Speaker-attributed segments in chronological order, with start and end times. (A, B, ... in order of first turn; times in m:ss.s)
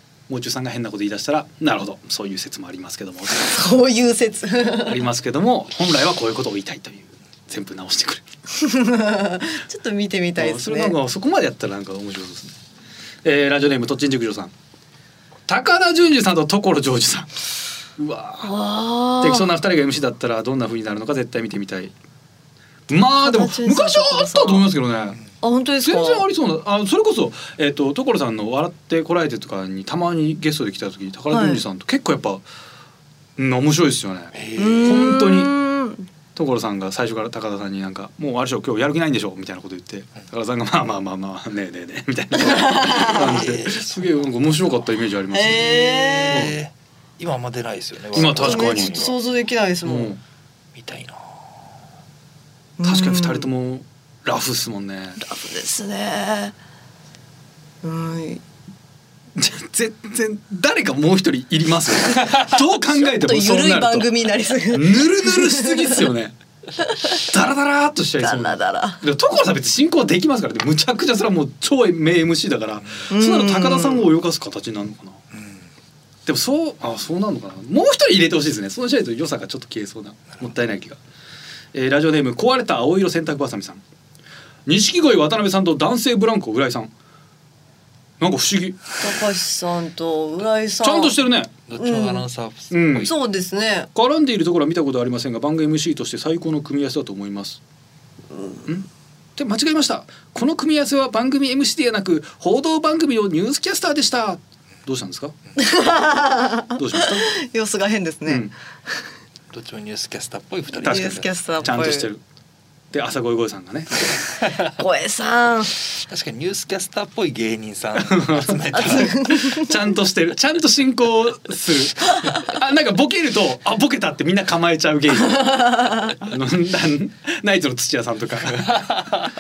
0:00.3-0:03.6 A
0:03.3-0:05.0 B
0:04.8-0:08.2 A
0:08.5-0:10.9 B
0:10.4-0:12.5 A
0:13.2-0:14.5 A
0:15.5-0:17.3 A
0:18.0-0:18.5 A
0:18.4-0:19.5 B
0:19.2-0:21.9 A
0:22.9-0:25.2 A
0:23.2-0:24.7 B
0:25.4-0:26.2 B
0:25.8-0:32.4 A
0:31.3-0:31.6 B
0:33.4-0:35.5 A
0:34.3-0:35.0 C
0:34.6-0:36.1 B
0:36.4-0:46.5 A
0:42.3-0:43.4 B
0:43.0-0:44.3 C
0:45.3-0:46.5 B
0:45.5-0:49.2 C
0:48.1-0:49.1 A
0:48.3-0:50.1 B
0:49.8-0:50.2 A
0:50.7-0:51.6 C
0:52.8-0:53.5 B
0:52.8-0:55.2 A
0:55.2-0:56.5 B
0:57.8-0:58.4 B
0:59.4-1:04.1 A
1:02.3-1:06.0 B
1:04.7-1:06.3 A
1:06.8-1:07.2 B
1:07.2-1:15.2 A
1:08.2-1:09.0 B
1:13.1-1:14.1 B
1:15.3-1:15.7 C
1:16.2-1:21.0 A
1:21.7-1:23.8 A
1:24.6-1:26.9 A
1:28.2-1:28.9 A
1:29.0-1:31.2 B
1:30.8-1:31.5 A
1:31.7-1:33.1 C
1:31.8-1:32.2 B
1:32.7-1:33.1 A
1:33.0-1:33.9 B
1:33.9-1:37.6 A
1:38.7-1:45.3 A
1:45.6-1:48.4 B
1:46.8-1:47.3 A
1:48.3-1:48.5 A
1:49.5-1:51.3 C
1:50.8-1:52.2 A
1:50.8-1:52.1 B
1:52.9-1:54.4 A
1:54.8-1:55.8 B
1:56.0-1:59.2 C
1:58.0-2:09.3 A
1:58.7-1:59.7 B
2:05.4-2:06.1 B